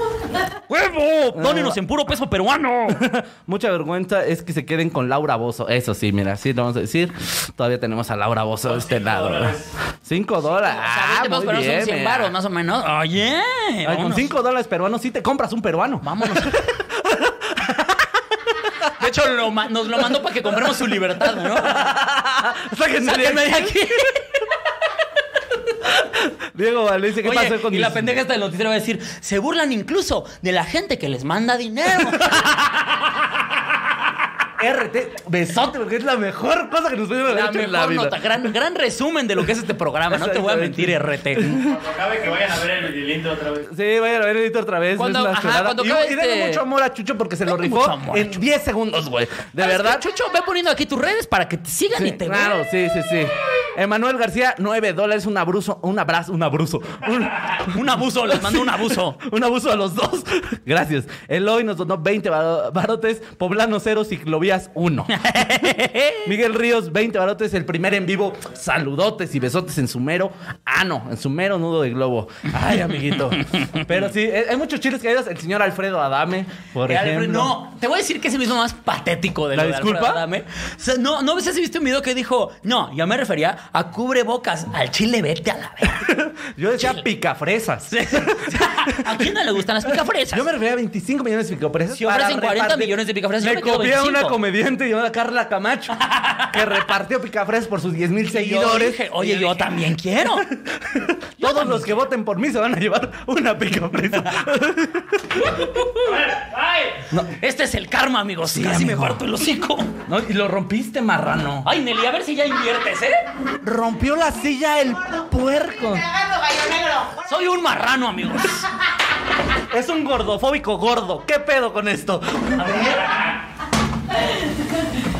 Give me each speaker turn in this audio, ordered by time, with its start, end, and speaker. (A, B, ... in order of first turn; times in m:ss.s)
0:00.7-0:03.0 A
0:01.3-0:01.8 B
0:02.9-0:12.3 B
0:08.7-0:09.7 C
0:10.7-0:14.3 A
0:13.8-0:18.2 B
0:16.0-0:16.6 A
0:18.8-0:21.8 A
0:21.4-0:24.1 B
0:23.0-0:24.4 A
0:25.8-0:28.1 B
0:27.2-0:33.0 A
0:34.6-0:38.5 B
0:37.3-0:41.5 A
0:40.1-0:41.8 B
0:41.5-0:43.7 C
0:43.6-0:50.0 B
0:45.0-0:46.6 A
0:47.5-0:48.4 A
0:49.6-0:52.6 A
0:52.0-1:05.5 B
0:57.6-0:59.2 A
1:05.1-1:06.3 A
1:06.2-1:17.6 B
1:16.8-1:26.1 A
1:19.5-1:20.2 B
1:26.0-1:29.3 B
1:27.9-1:30.5 A
1:29.8-1:39.8 B
1:31.9-1:34.4 A
1:36.0-1:36.6 A
1:38.3-1:40.5 A
1:40.3-1:45.8 B
1:41.4-1:42.0 A
1:45.3-1:46.3 A
1:46.3-1:47.0 C
1:47.3-1:49.9 A
1:48.5-1:49.2 B
1:50.0-1:51.7 B
1:51.6-1:53.2 A
1:53.6-1:56.2 B
1:57.0-1:58.7 A
1:59.7-2:03.1 B